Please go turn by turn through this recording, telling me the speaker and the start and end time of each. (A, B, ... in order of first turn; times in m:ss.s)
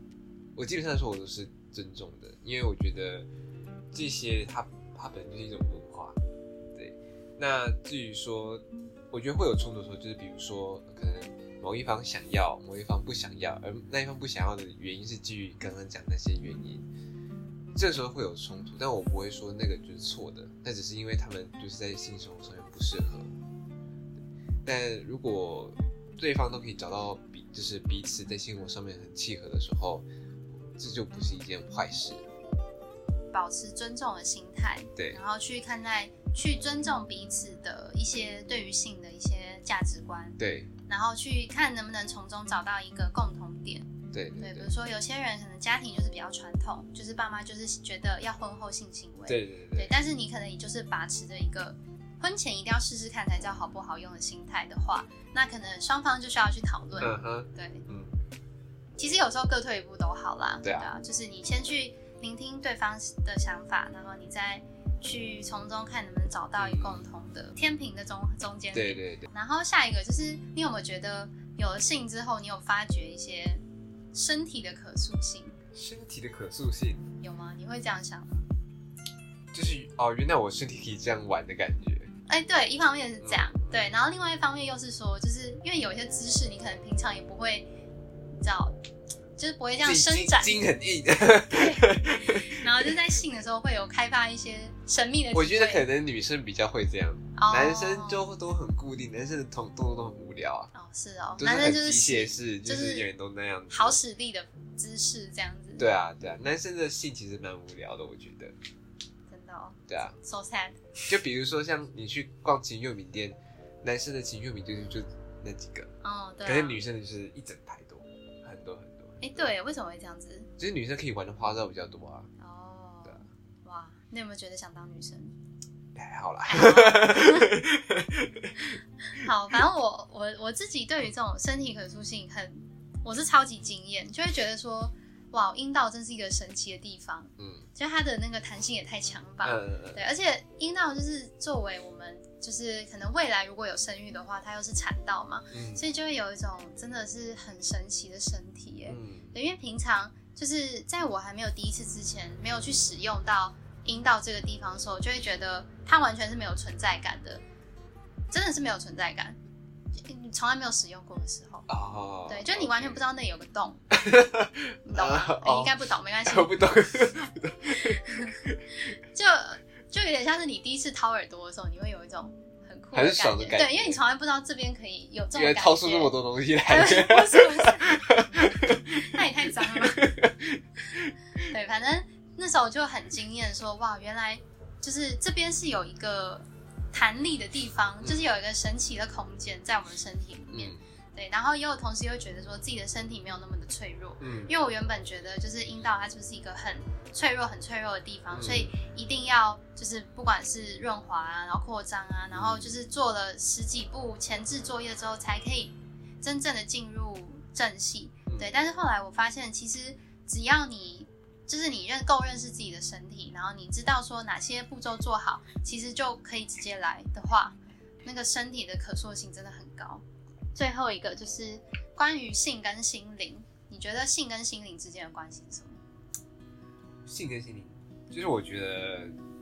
0:00.6-0:03.3 A
0:03.9-0:06.2 A
0:06.7-0:16.9 A
0:17.7-0:23.3 A
0:24.6-0:30.0 A
0:30.8-0:32.2 A
0:33.3-0:57.9 B
0:40.4-0:40.7 A
0:44.1-0:44.7 A
0:49.3-0:49.9 A
0:57.0-0:58.1 A
0:59.0-1:13.6 B
1:00.6-1:00.9 A
1:06.6-1:07.0 A
1:08.7-1:09.3 A
1:14.1-1:15.6 B
1:15.7-1:17.1 A
1:17.2-1:18.4 B
1:19.5-1:22.1 A
1:22.3-1:27.7 B
1:23.2-1:23.8 A
1:28.4-1:28.8 B
1:29.4-1:30.6 B
1:29.8-1:32.9 A
1:31.5-1:35.8 B
1:35.3-1:40.7 A
1:37.4-1:38.2 B
1:40.7-1:43.1 B
1:41.4-1:44.0 A
1:43.7-1:45.9 B
1:45.8-1:48.5 A
1:49.3-1:50.8 B
1:49.9-1:50.2 A
1:51.1-1:55.9 A
1:56.0-1:56.8 B
1:56.4-1:59.5 A
1:59.2-2:00.5 B
2:00.6-2:02.3 A
2:02.4-2:05.3 B
2:05.9-2:08.8 A
2:06.5-2:07.5 B
2:09.1-2:37.4 B
2:17.4-2:17.7 A
2:19.4-2:20.0 A
2:25.5-2:25.8 A
2:28.9-2:29.4 A
2:38.3-2:39.4 B
2:40.0-2:41.7 B
2:41.7-2:43.0 A
2:42.3-2:43.8 B
2:43.9-2:48.6 A
2:44.8-2:46.6 B
2:47.8-2:58.1 B
2:52.9-2:54.0 A
2:55.3-3:01.1 A
2:58.9-3:00.1 B
3:01.5-3:40.0 B
3:08.0-3:08.3 A
3:10.5-3:10.8 A
3:14.2-3:14.5 A
3:18.3-3:18.7 A
3:22.3-3:22.7 A
3:40.5-3:45.8 B
3:47.0-3:49.1 A